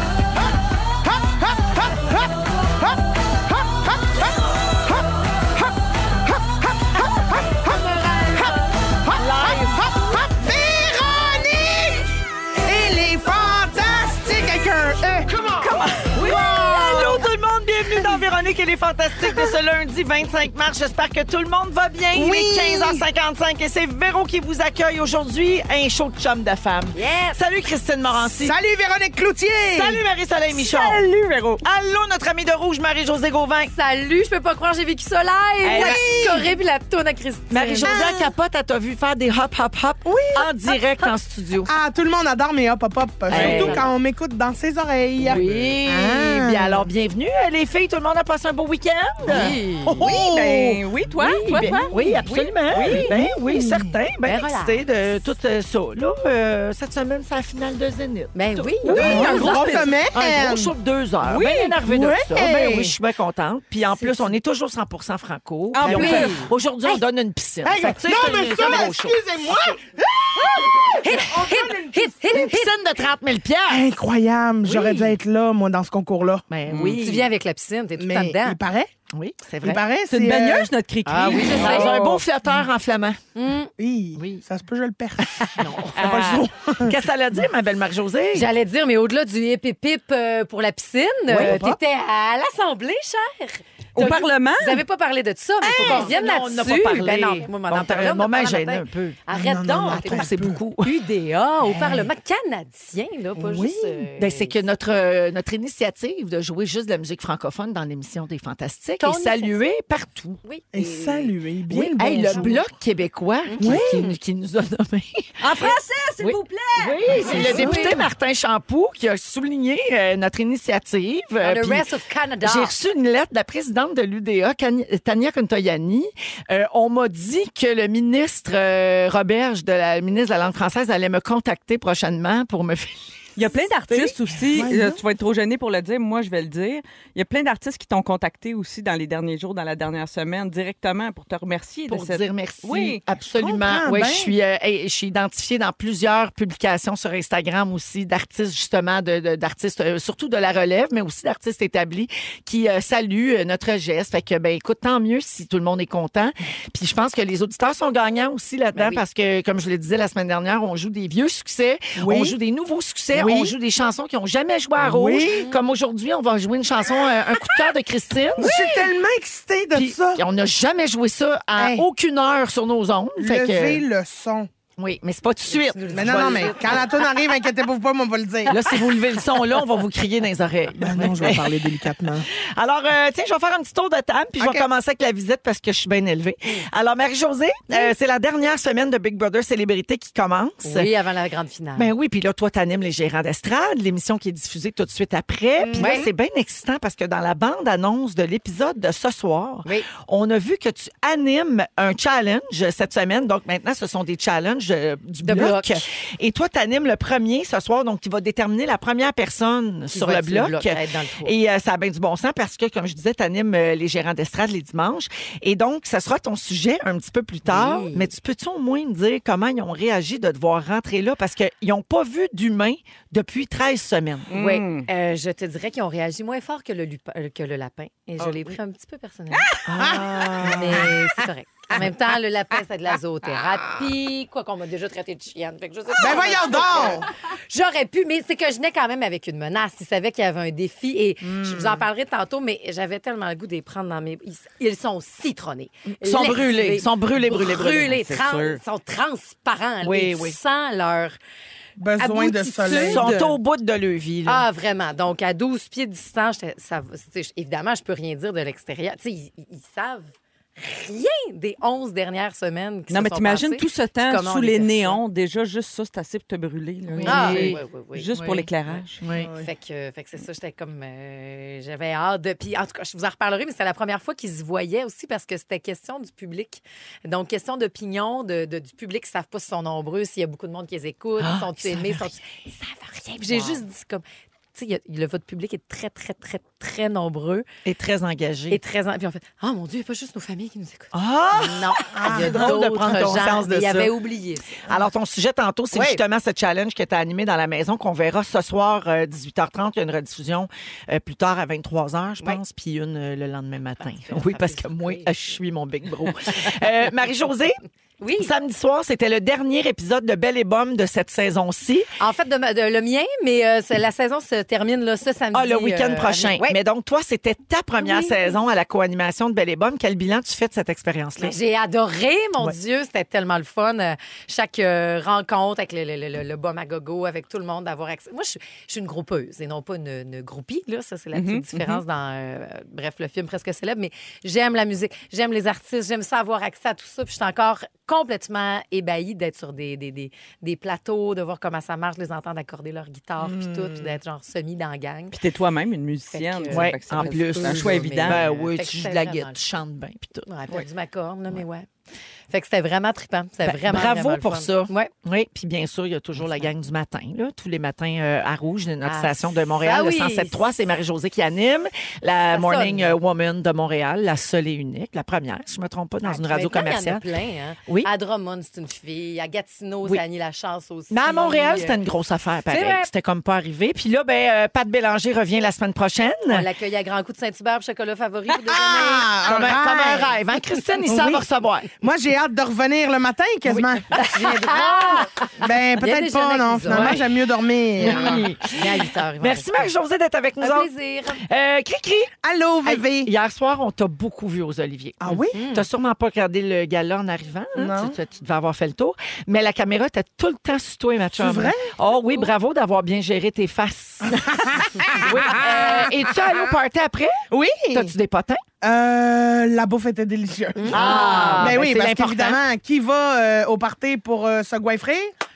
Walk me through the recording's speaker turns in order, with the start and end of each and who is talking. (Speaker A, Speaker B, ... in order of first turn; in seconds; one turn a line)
Speaker A: 1.1-2.3
Speaker A: 3.5-5.1
Speaker A: 6.2-12.1
Speaker B: 7.7-8.5
Speaker C: 9.2-9.8
Speaker A: 12.6-15.7
Speaker D: 15.6-16.6
Speaker C: 16.1-28.5
Speaker A: 16.7-17.1
Speaker A: 22.1-23.0
Speaker B: 26.9-27.4
Speaker A: 28.3-30.0
Speaker C: 29.7-31.0
Speaker D: 30.5-31.6
Speaker C: 31.6-33.7
Speaker B: 33.7-37.9
Speaker C: 35.6-36.4
Speaker A: 35.8-36.3
Speaker C: 37.5-41.7
Speaker A: 37.8-38.3
Speaker A: 41.7-46.9
Speaker C: 43.3-43.9
Speaker D: 43.3-43.8
Speaker B: 43.4-43.9
Speaker C: 45.2-49.6
Speaker D: 45.3-45.7
Speaker B: 49.2-50.0
Speaker A: 49.9-50.8
Speaker D: 50.0-51.9
Speaker C: 51.2-69.2
Speaker B: 51.9-52.5
Speaker D: 52.7-53.1
Speaker A: 53.1-53.9
Speaker B: 54.2-55.3
Speaker B: 58.3-59.9
Speaker D: 58.9-60.0
Speaker A: 58.9-60.7
Speaker D: 61.2-61.8
Speaker A: 61.8-62.9
Speaker B: 63.9-64.3
Speaker D: 65.7-66.4
Speaker B: 65.8-67.0
Speaker A: 67.6-72.6
Speaker B: 71.0-72.7
Speaker C: 72.3-73.9
Speaker A: 73.7-76.5
Speaker C: 74.7-75.1
Speaker C: 76.5-77.3
Speaker D: 76.7-77.0
Speaker B: 77.0-78.6
Speaker A: 78.0-78.9
Speaker C: 79.1-79.8
Speaker A: 79.6-80.7
Speaker D: 80.1-82.2
Speaker B: 81.1-82.1
Speaker C: 81.3-83.2
Speaker B: 83.3-83.7
Speaker A: 83.8-87.0
Speaker C: 84.2-84.4
Speaker C: 85.2-88.5
Speaker B: 85.6-86.2
Speaker B: 88.3-104.7
Speaker C: 91.3-91.6
Speaker A: 91.3-91.8
Speaker D: 94.0-94.8
Speaker C: 95.6-99.2
Speaker A: 99.3-100.6
Speaker C: 99.8-100.9
Speaker C: 101.7-102.0
Speaker A: 103.4-104.1
Speaker C: 104.2-110.4
Speaker B: 109.0-109.7
Speaker B: 110.4-111.3
Speaker A: 110.7-112.7
Speaker C: 111.7-121.9
Speaker B: 112.3-112.5
Speaker B: 113.5-114.2
Speaker A: 113.6-114.0
Speaker D: 115.4-118.0
Speaker B: 117.1-118.0
Speaker B: 121.4-122.7
Speaker C: 122.4-133.2
Speaker D: 133.3-143.0
Speaker C: 133.9-134.1
Speaker A: 134.5-135.0
Speaker C: 141.9-168.8
Speaker A: 143.4-144.3
Speaker B: 158.7-159.0
Speaker A: 162.0-162.3
Speaker A: 163.1-163.5
Speaker A: 164.8-165.4
Speaker A: 168.4-170.2
Speaker C: 169.7-173.8
Speaker A: 171.6-171.8
Speaker A: 173.2-174.5
Speaker C: 174.8-176.9
Speaker B: 175.5-177.0
Speaker A: 175.9-178.6
Speaker C: 178.5-190.9
Speaker A: 180.8-182.3
Speaker A: 184.4-184.7
Speaker B: 190.6-191.9
Speaker C: 191.8-224.4
Speaker A: 195.6-196.1
Speaker B: 195.8-196.1
Speaker B: 205.2-205.8
Speaker B: 209.9-211.3
Speaker B: 217.4-218.1
Speaker D: 224.3-224.9
Speaker B: 224.3-229.5
Speaker C: 228.2-228.5
Speaker D: 229.3-229.6
Speaker C: 229.6-230.9
Speaker A: 229.8-230.9
Speaker B: 230.4-251.2
Speaker A: 236.0-237.1
Speaker A: 241.2-241.8
Speaker C: 246.0-247.9
Speaker D: 247.9-248.6
Speaker C: 249.8-250.4
Speaker A: 251.8-253.0
Speaker B: 252.0-253.3
Speaker C: 252.7-254.5
Speaker B: 254.2-265.0
Speaker D: 262.9-269.0
Speaker C: 266.9-267.6
Speaker B: 267.0-268.1
Speaker C: 268.1-268.5
Speaker C: 269.0-269.3
Speaker A: 269.2-269.5
Speaker B: 269.4-287.5
Speaker C: 281.2-282.1
Speaker C: 283.3-283.6
Speaker C: 287.6-288.6
Speaker B: 288.5-294.6
Speaker C: 290.9-293.9
Speaker A: 291.9-292.5
Speaker C: 294.6-307.6
Speaker B: 295.7-296.0
Speaker B: 303.8-305.1
Speaker B: 308.0-308.3
Speaker C: 308.2-311.9
Speaker B: 312.0-316.6
Speaker C: 315.3-321.4
Speaker B: 317.8-318.3
Speaker B: 321.2-345.2
Speaker D: 331.1-331.8
Speaker A: 343.2-344.0
Speaker D: 345.1-348.2
Speaker B: 346.1-349.4
Speaker C: 346.5-350.7
Speaker B: 350.3-351.7
Speaker B: 352.3-354.9
Speaker C: 353.4-367.0
Speaker B: 358.9-360.4
Speaker B: 362.3-362.9
Speaker B: 366.0-371.8
Speaker C: 370.9-376.5
Speaker B: 372.5-372.9
Speaker B: 376.3-379.1
Speaker A: 378.5-380.1
Speaker C: 379.2-381.7
Speaker A: 380.8-381.2
Speaker A: 381.8-383.9
Speaker C: 383.4-385.0
Speaker B: 383.9-387.0
Speaker A: 385.4-388.3
Speaker C: 386.7-387.1
Speaker C: 387.8-392.1
Speaker B: 387.8-389.7
Speaker B: 390.4-391.2
Speaker A: 392.2-393.1
Speaker C: 392.6-408.4
Speaker A: 395.0-395.4
Speaker B: 395.3-395.7
Speaker A: 397.6-398.0
Speaker A: 401.1-401.7
Speaker A: 404.1-406.6
Speaker A: 407.3-407.9
Speaker A: 408.6-415.1
Speaker B: 410.6-411.7
Speaker C: 410.7-412.4